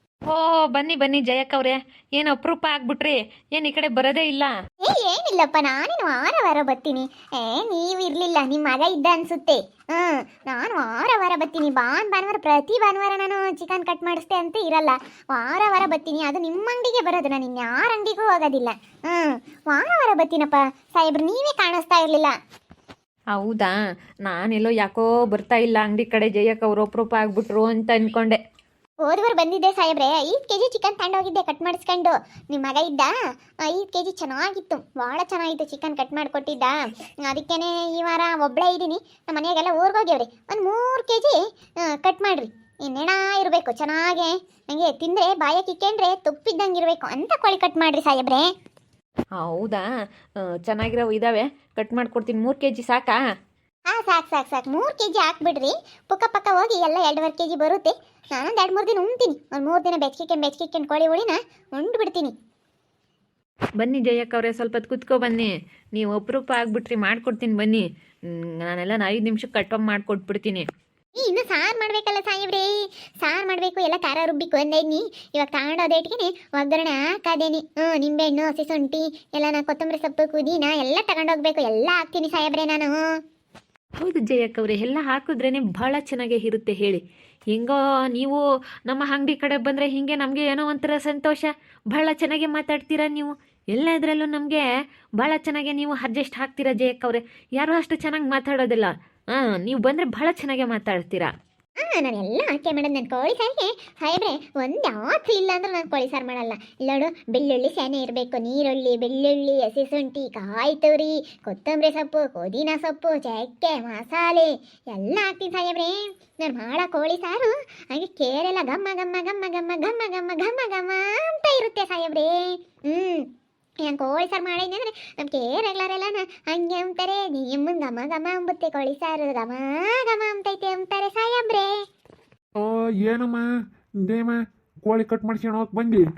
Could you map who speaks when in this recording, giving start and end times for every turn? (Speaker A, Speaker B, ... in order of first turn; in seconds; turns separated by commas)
Speaker A: 0.3-4.5, Speaker B: 4.8-22.3, Speaker A: 23.3-23.7, Speaker A: 24.3-28.4, Speaker B: 29.0-33.1, Speaker B: 33.6-48.5, Speaker A: 49.4-49.9, Speaker A: 50.4-53.2, Speaker B: 53.9-62.3, Speaker A: 63.8-70.7, Speaker B: 71.2-83.1, Speaker A: 84.0-87.0, Speaker A: 87.5-94.7, Speaker A: 95.2-101.3, Speaker B: 101.8-123.2, Speaker B: 123.8-131.8, Speaker C: 132.6-133.5, Speaker C: 134.0-136.0